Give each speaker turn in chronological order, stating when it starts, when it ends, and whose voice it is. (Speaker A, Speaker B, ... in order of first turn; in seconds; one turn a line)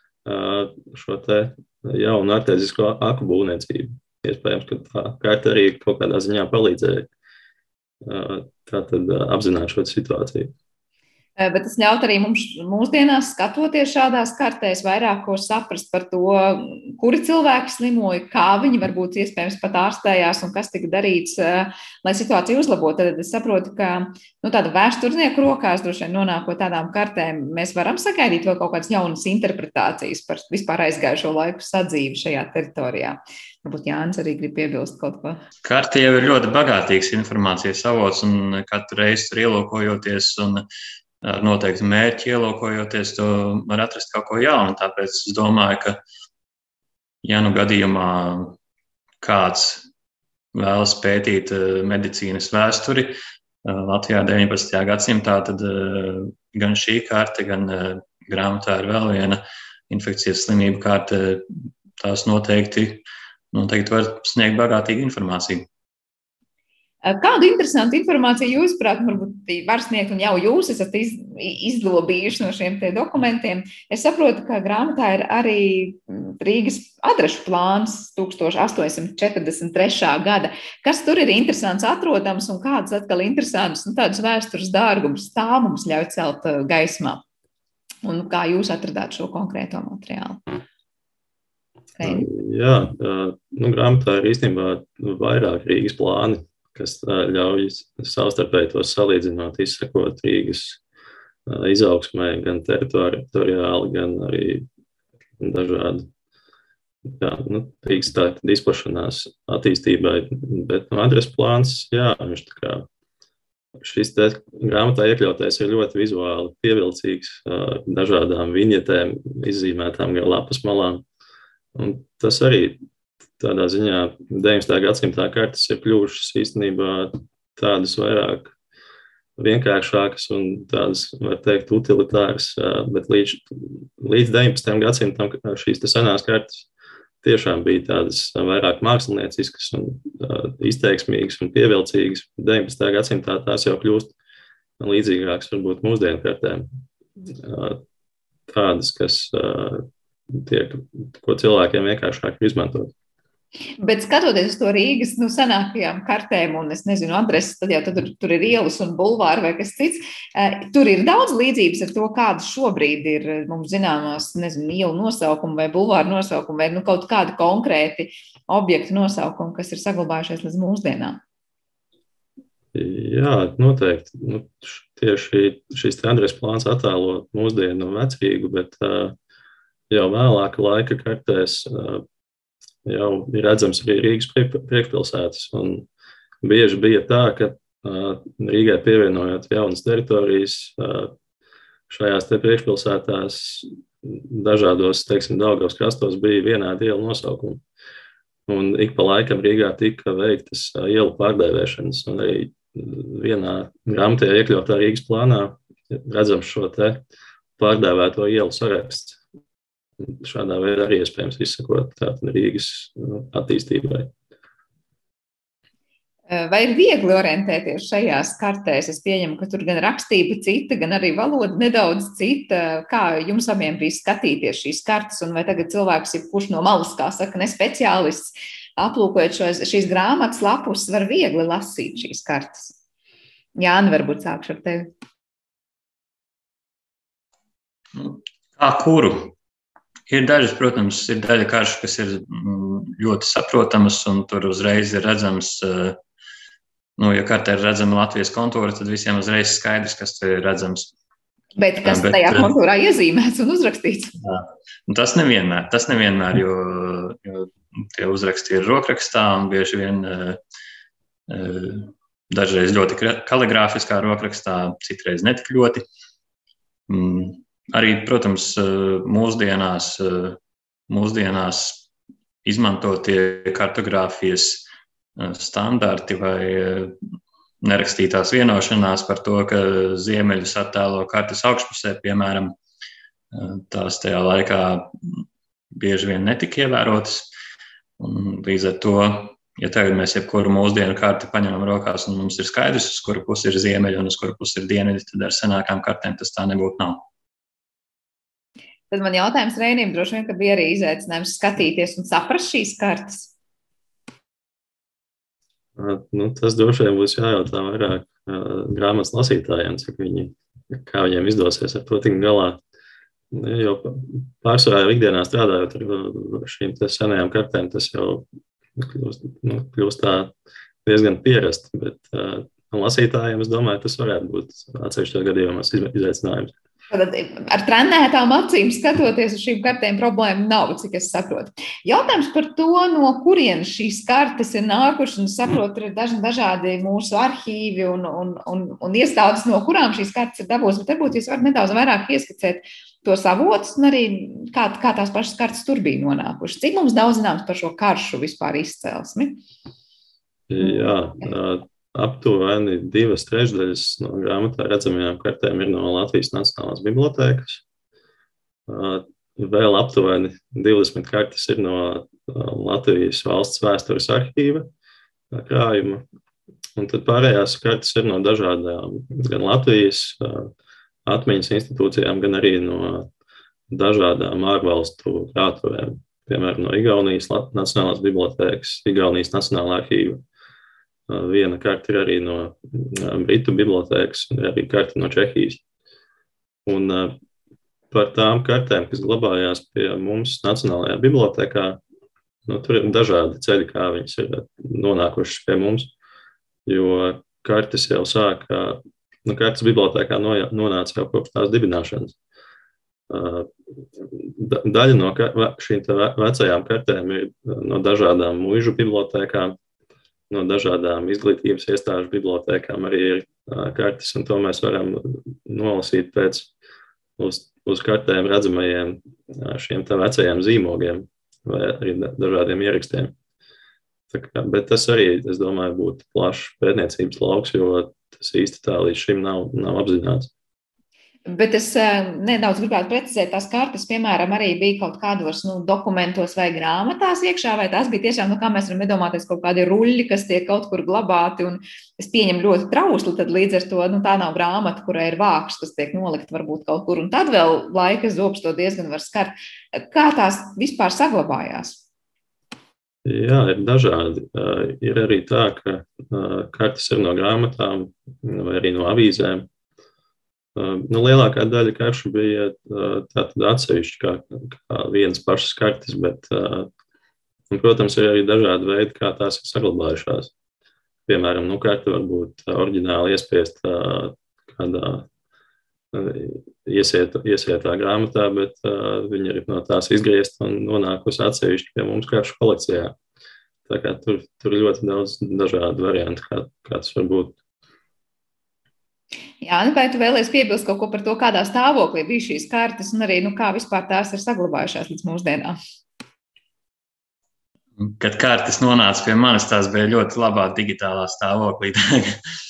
Speaker A: 0.2-7.1
Speaker A: 8.0-10.5
Speaker B: 11.4-35.4
Speaker C: 35.6-40.6
Speaker C: 41.2-46.0
Speaker C: 47.2-48.5
Speaker C: 49.2-49.8
Speaker C: 50.5-61.4
Speaker C: 62.0-65.7
Speaker B: 67.0-87.2
Speaker B: 88.0-90.4
Speaker B: 92.0-92.3
Speaker A: 92.0-100.8
Speaker A: 101.5-104.7
Speaker A: 105.4-106.1
Speaker A: 107.0-112.9
Speaker A: 113.8-121.0
Speaker A: 121.7-122.8
Speaker A: 123.4-128.5
Speaker A: 129.4-136.7
Speaker A: 137.2-144.1
Speaker A: 144.8-146.7
Speaker A: 147.2-147.8
Speaker A: 148.5-152.9
Speaker B: 153.8-171.2
Speaker A: 172.7-179.2
Speaker A: 179.9-182.0
Speaker A: 182.8-185.9
Speaker A: 186.4-191.1
Speaker A: 191.9-197.6
Speaker A: 198.5-207.0
Speaker A: 207.6-209.2
Speaker A: 210.0-214.1
Speaker B: 216.3-232.7
Speaker B: 233.6-234.9
Speaker C: 237.9-239.3
Speaker C: 240.1-246.0
Speaker C: 247.0-250.9
Speaker B: 251.6-254.1
Speaker C: 251.8-252.5
Speaker C: 254.2-260.4
Speaker C: 261.3-265.8
Speaker C: 266.9-271.9
Speaker C: 272.4-276.9
Speaker C: 277.6-282.5
Speaker C: 283.3-287.3
Speaker C: 288.0-297.0
Speaker B: 298.9-303.3
Speaker A: 305.8-312.6
Speaker A: 313.3-320.3
Speaker A: 320.8-326.5
Speaker B: 326.9-349.4
Speaker A: 350.5-357.6
Speaker B: 350.6-351.0
Speaker A: 358.7-364.7
Speaker A: 365.3-366.0
Speaker A: 366.7-370.5
Speaker A: 371.1-373.1
Speaker A: 373.7-380.2
Speaker A: 381.1-385.6
Speaker A: 386.6-387.1
Speaker A: 387.9-391.8
Speaker A: 392.4-395.9
Speaker A: 396.6-402.1
Speaker A: 403.1-409.6
Speaker A: 410.3-416.5
Speaker A: 417.2-423.1
Speaker A: 424.1-430.3
Speaker B: 431.3-451.8
Speaker A: 453.0-459.5
Speaker A: 460.6-466.7
Speaker A: 467.5-470.3
Speaker A: 471.1-475.1
Speaker A: 475.9-482.9
Speaker A: 483.7-487.4
Speaker B: 489.4-495.6
Speaker C: 497.8-502.2